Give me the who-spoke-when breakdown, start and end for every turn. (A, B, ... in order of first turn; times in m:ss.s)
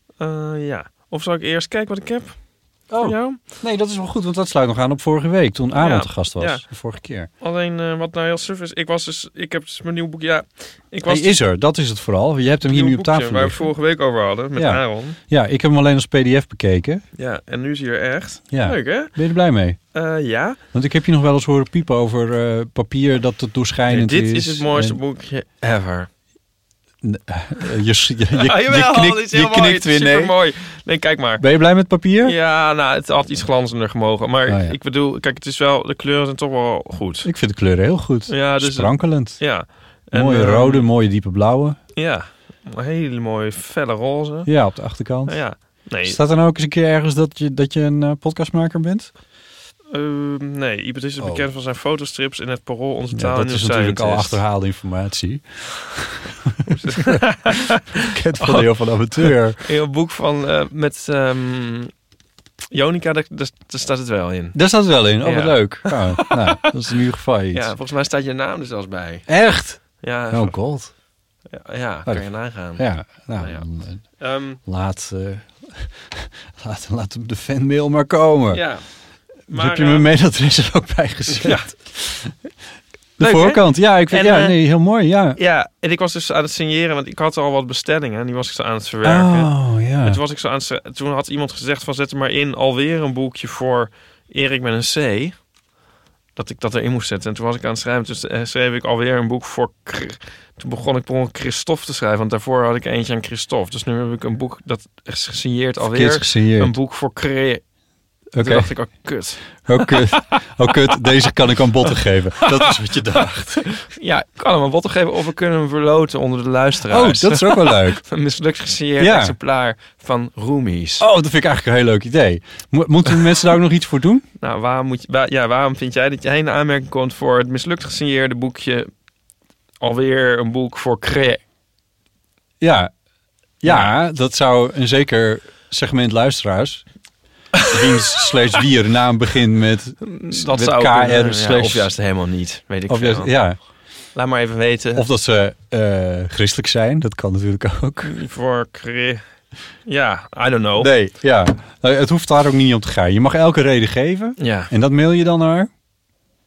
0:00.2-0:03.4 A
0:02.9-0:07.3 B
0:05.8-0:06.7 A
0:07.4-0:11.4 A
0:11.1-0:13.7 B
0:12.7-0:15.2 A
0:14.6-0:17.0 B
0:17.2-0:19.2 A
0:18.5-0:19.8 B
0:19.9-0:20.6 A
0:20.7-0:25.0 B
0:23.9-0:26.1 A
0:27.0-0:30.4 B
0:28.4-0:31.4 A
0:31.4-0:32.4 B
0:32.2-0:37.3 A
0:34.5-0:34.8 B
0:37.2-0:39.6 B
0:38.3-0:40.9 A
0:40.1-0:41.8 B
0:42.0-0:44.5 A
0:44.5-0:49.1 B
0:45.3-0:46.2 A
0:49.9-0:54.4 A
0:51.2-0:51.5 B
0:53.1-0:56.2 B
0:56.7-0:57.8 A
0:57.0-0:57.3 B
0:57.9-0:59.6 B
0:58.4-0:58.7 A
0:59.2-1:01.9 A
1:02.7-1:04.6 A
1:04.5-1:07.7 B
1:05.2-1:06.7 A
1:07.5-1:09.3 A
1:09.3-1:10.9 B
1:09.8-1:10.6 A
1:11.5-1:13.7 A
1:12.1-1:18.7 B
1:14.2-1:14.6 A
1:18.5-1:18.8 A
1:19.5-1:20.1 A
1:19.5-1:22.3 B
1:21.3-1:21.7 A
1:23.2-1:25.4 B
1:23.2-1:24.6 A
1:25.4-1:29.5 A
1:29.0-1:30.2 B
1:30.0-1:35.4 A
1:36.4-1:47.6 A
1:45.8-1:46.8 B
1:48.3-1:49.0 B
1:48.4-1:50.2 A
1:49.6-1:53.7 B
1:53.8-2:01.1 A
1:56.9-1:58.0 B
1:59.0-1:59.4 B
2:01.0-2:04.3 B
2:04.4-2:08.9 A
2:09.8-2:11.4 A
2:12.6-2:12.9 B
2:13.6-2:16.9 B
2:13.6-2:13.9 A
2:17.6-2:21.9 B
2:20.0-2:23.4 A
2:22.9-2:23.6 B
2:24.2-2:25.0 A
2:25.0-2:28.2 B
2:28.0-2:29.2 A
2:29.8-2:30.9 A
2:30.8-2:35.7 B
2:34.4-2:34.7 A